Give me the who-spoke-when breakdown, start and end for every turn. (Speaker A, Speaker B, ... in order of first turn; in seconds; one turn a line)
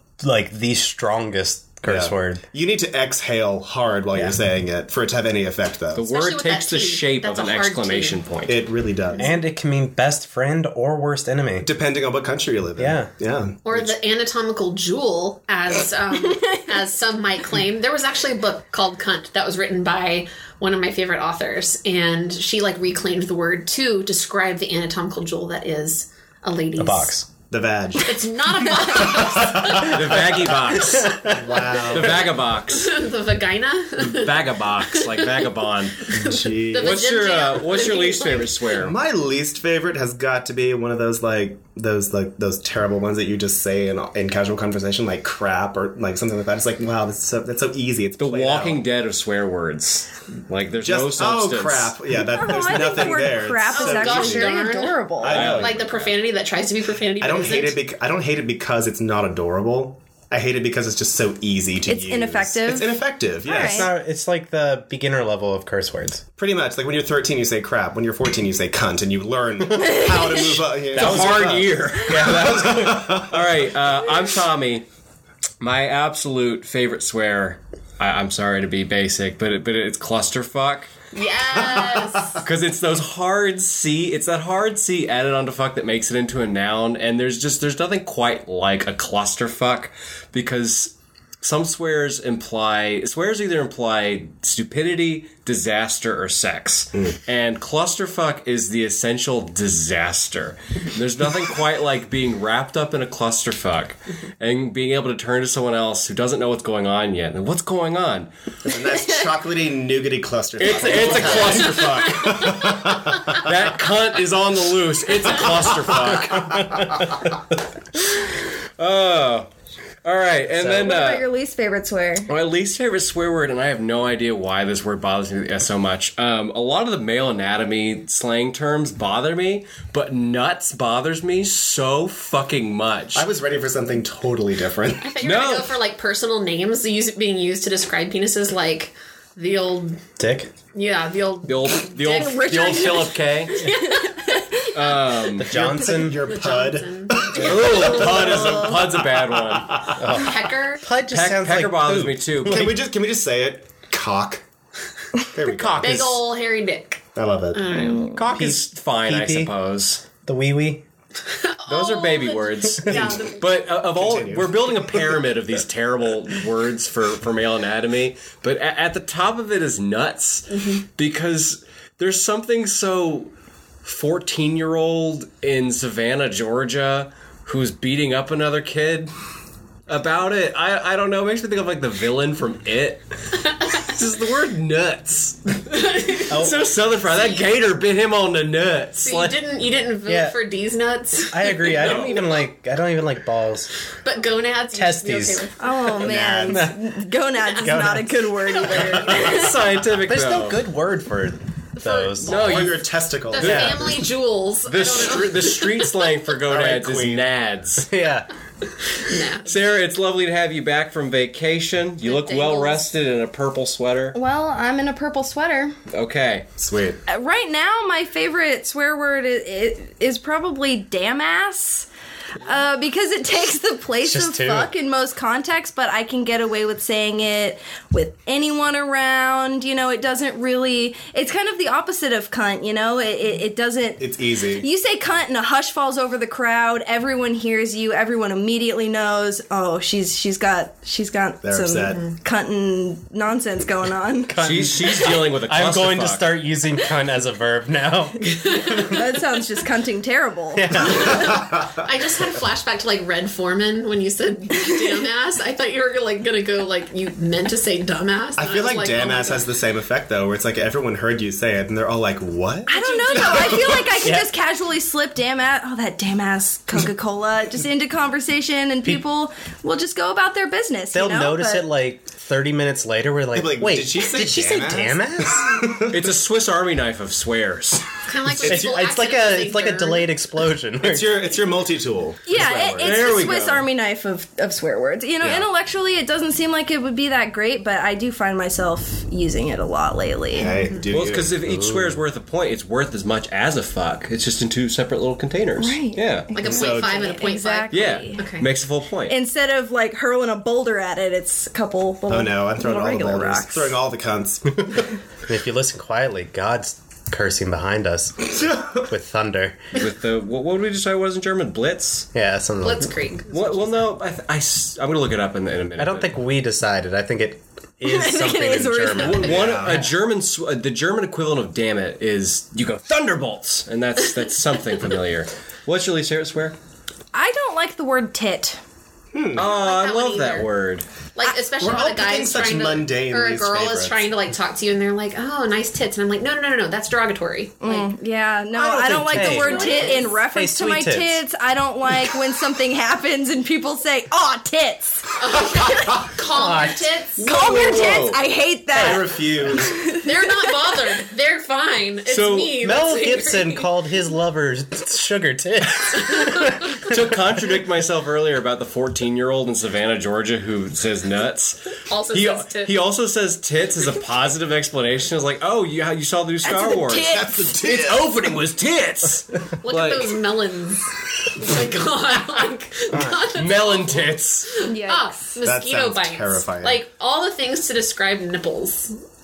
Speaker A: 0.2-2.4
Speaker B: 1.9-6.0
Speaker A: 4.1-4.4
Speaker C: 5.9-8.6
Speaker D: 6.1-8.2
Speaker B: 8.5-9.3
Speaker A: 9.2-11.7
Speaker B: 11.6-13.9
Speaker A: 12.8-13.1
Speaker D: 13.6-27.2
Speaker A: 26.8-27.3
Speaker B: 27.5-28.2
Speaker D: 28.0-30.2
Speaker B: 28.8-32.2
Speaker C: 29.8-31.2
Speaker A: 30.8-31.8
Speaker C: 31.9-33.0
Speaker D: 32.7-35.4
Speaker C: 34.0-36.1
Speaker D: 36.0-38.6
Speaker B: 36.1-36.9
Speaker C: 36.8-38.9
Speaker B: 38.7-48.8
Speaker C: 48.2-52.0
Speaker B: 50.8-54.5
Speaker E: 52.3-55.5
Speaker D: 53.7-57.8
Speaker B: 55.2-56.1
Speaker C: 55.2-56.1
Speaker B: 57.2-63.9
Speaker E: 61.9-63.9
Speaker A: 63.6-66.2
Speaker B: 66.4-73.3
Speaker E: 69.9-70.6
Speaker A: 70.9-73.3
Speaker C: 70.9-74.8
Speaker C: 75.6-80.9
Speaker D: 81.1-82.4
Speaker B: 81.5-82.4
Speaker C: 82.4-108.3
Speaker B: 108.7-113.4
Speaker C: 110.6-116.9
Speaker D: 111.2-111.7
Speaker A: 116.3-117.0
Speaker C: 118.0-119.5
Speaker C: 120.0-121.2
Speaker A: 120.5-120.9
Speaker E: 120.7-122.3
Speaker C: 122.3-133.2
Speaker B: 133.1-135.1
Speaker D: 135.0-140.0
Speaker C: 135.2-135.7
Speaker A: 140.2-140.5
Speaker D: 140.7-144.3
Speaker C: 141.5-143.8
Speaker E: 142.0-144.9
Speaker C: 144.7-145.6
Speaker A: 145.3-146.3
Speaker B: 145.5-150.0
Speaker D: 146.1-147.9
Speaker C: 147.3-150.0
Speaker E: 148.1-148.6
Speaker A: 149.9-152.7
Speaker D: 150.1-150.8
Speaker C: 151.1-152.7
Speaker B: 152.4-154.4
Speaker B: 155.2-156.2
Speaker C: 155.5-156.0
Speaker D: 155.8-158.2
Speaker B: 157.1-157.6
Speaker C: 158.1-160.0
Speaker A: 158.2-159.5
Speaker A: 160.2-160.8
Speaker D: 161.3-163.5
Speaker C: 161.7-173.3
Speaker A: 162.8-163.1
Speaker B: 162.9-163.3
Speaker B: 163.8-165.3
Speaker D: 170.5-170.8
Speaker C: 173.8-179.1
Speaker C: 179.9-183.0
Speaker C: 183.8-189.4
Speaker D: 185.7-187.5
Speaker A: 186.3-186.6
Speaker D: 189.0-192.2
Speaker A: 190.1-190.4
Speaker A: 191.3-193.7
Speaker C: 191.8-192.2
Speaker D: 194.0-195.8
Speaker A: 194.7-195.4
Speaker E: 195.6-199.5
Speaker B: 196.0-196.7
Speaker A: 196.5-196.8
Speaker A: 197.6-198.2
Speaker D: 198.4-199.3
Speaker B: 199.0-199.4
Speaker C: 199.1-200.6
Speaker A: 200.1-202.3
Speaker D: 201.8-206.0
Speaker C: 202.2-204.0
Speaker B: 202.2-204.0
Speaker C: 204.7-207.9
Speaker B: 206.5-207.2
Speaker A: 207.8-208.3
Speaker D: 209.0-209.5
Speaker C: 209.4-214.2
Speaker D: 212.0-212.9
Speaker E: 214.1-215.8
Speaker C: 215.9-216.4
Speaker B: 216.6-217.0
Speaker E: 217.1-221.9
Speaker E: 222.4-234.1
Speaker A: 224.0-224.7
Speaker B: 234.0-234.7
Speaker E: 234.6-244.6
Speaker B: 241.4-242.0
Speaker D: 241.9-242.1
Speaker A: 244.3-249.0
Speaker C: 244.4-246.3
Speaker D: 248.4-249.0
Speaker E: 248.8-251.2
Speaker A: 250.5-251.3
Speaker D: 250.8-259.4
Speaker B: 250.9-251.8
Speaker B: 258.4-263.9
Speaker E: 262.7-271.6
Speaker D: 262.7-263.8
Speaker A: 264.0-264.3
Speaker A: 270.9-275.6
Speaker B: 273.3-276.1
Speaker C: 275.9-277.9
Speaker D: 278.0-280.1
Speaker A: 278.3-281.3
Speaker B: 280.8-283.1
Speaker E: 282.2-290.5
Speaker A: 282.3-283.0
Speaker C: 282.8-283.7
Speaker B: 290.3-291.4
Speaker D: 290.6-290.8
Speaker C: 290.9-296.3
Speaker A: 291.4-292.0
Speaker E: 295.6-298.3
Speaker D: 296.3-298.5
Speaker B: 296.4-297.0
Speaker C: 297.7-299.1
Speaker E: 299.1-303.8
Speaker B: 302.1-304.9
Speaker A: 305.3-309.6
Speaker B: 308.4-308.8
Speaker C: 309.7-312.1
Speaker A: 312.1-312.9
Speaker D: 312.6-313.8
Speaker C: 313.3-316.1
Speaker A: 315.8-319.9
Speaker E: 317.8-319.3
Speaker C: 319.0-326.6
Speaker B: 319.2-319.9
Speaker E: 327.1-328.6
Speaker B: 329.1-329.5
Speaker C: 329.3-330.9
Speaker D: 329.4-330.5
Speaker D: 331.1-337.9
Speaker B: 331.6-334.0
Speaker E: 337.6-346.0
Speaker A: 338.5-341.2
Speaker C: 339.1-339.4
Speaker D: 339.2-340.1
Speaker D: 345.2-347.3
Speaker A: 346.3-346.9
Speaker C: 347.2-348.2
Speaker E: 347.2-350.1
Speaker A: 348.7-349.0
Speaker B: 348.7-349.8
Speaker D: 349.9-353.7
Speaker C: 352.1-352.6
Speaker A: 352.6-357.1
Speaker D: 356.0-356.7
Speaker C: 356.8-370.2
Speaker D: 361.9-362.8
Speaker E: 366.4-367.8
Speaker B: 367.1-368.1
Speaker D: 369.6-378.9
Speaker A: 372.9-373.2
Speaker C: 373.3-374.5
Speaker E: 374.6-375.4
Speaker B: 375.4-376.8